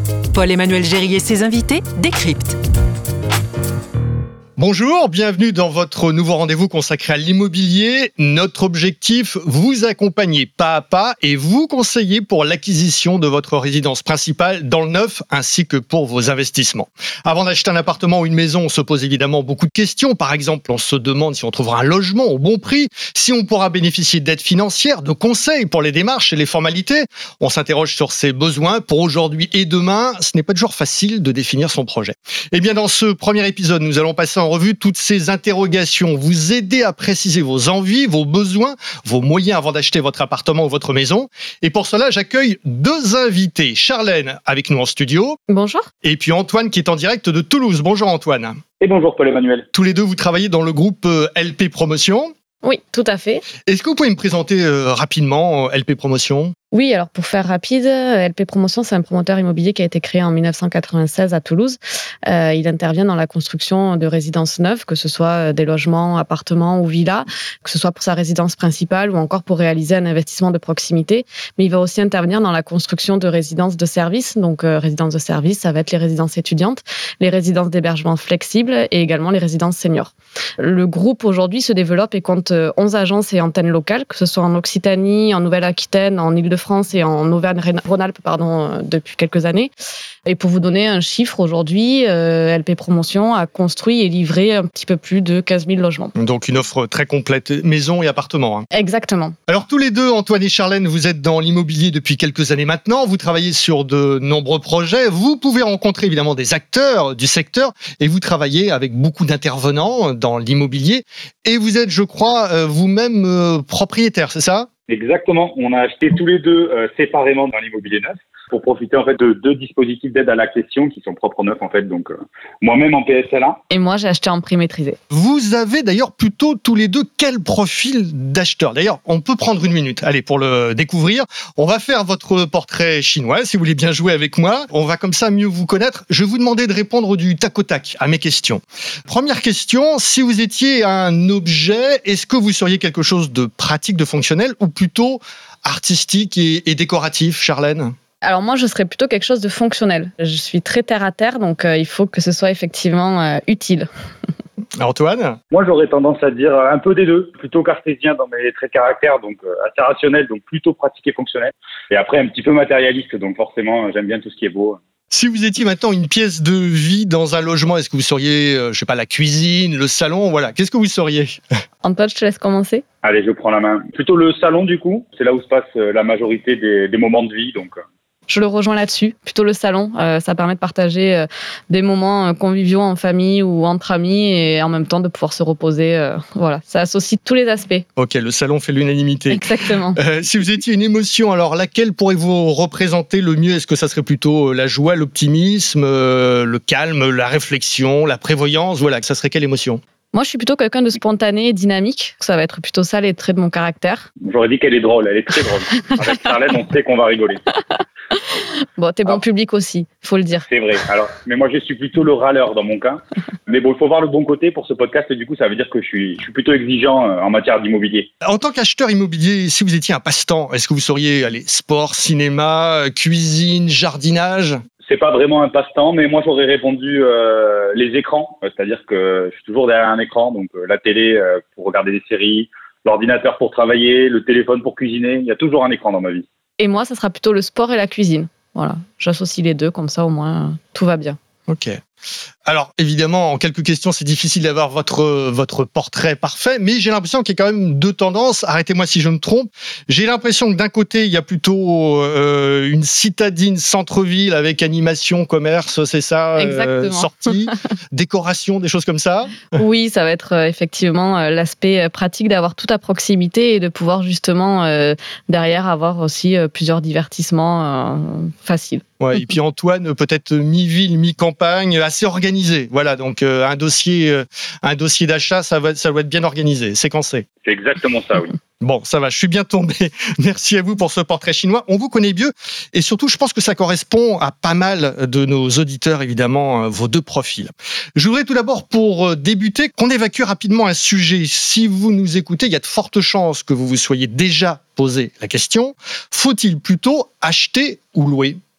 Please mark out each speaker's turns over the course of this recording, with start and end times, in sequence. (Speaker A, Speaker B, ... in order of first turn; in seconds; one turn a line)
Speaker A: 0.3-2.6
Speaker B: 4.6-45.4
Speaker C: 45.5-45.9
Speaker B: 46.0-48.6
Speaker D: 48.8-49.7
Speaker B: 49.7-52.3
Speaker C: 52.6-53.4
Speaker B: 53.6-56.5
Speaker C: 56.7-89.7
Speaker C: 90.2-96.1
Speaker B: 96.2-98.7
Speaker C: 98.7-99.3
Speaker B: 99.5-114.7
Speaker D: 114.9-123.6
Speaker C: 123.7-125.0
Speaker B: 125.1-147.9
Speaker C: 148.2-153.9
Speaker B: 154.8-155.4
Speaker D: 155.5-164.8
Speaker B: 165.1-171.4
Speaker C: 171.8-172.8
Speaker D: 173.0-177.8
Speaker C: 178.3-187.8
Speaker B: 187.9-199.8
Speaker C: 189.3-190.0
Speaker C: 200.1-204.1
Speaker D: 204.2-207.4
Speaker C: 208.7-210.5
Speaker D: 210.5-218.1
Speaker B: 218.2-224.6
Speaker D: 224.8-236.2
Speaker C: 236.6-241.2
Speaker B: 241.5-241.8
Speaker B: 242.4-259.5
Speaker C: 256.4-257.4
Speaker C: 259.5-268.8
Speaker B: 269.0-277.2
Speaker D: 277.4-278.3
Speaker B: 278.6-298.4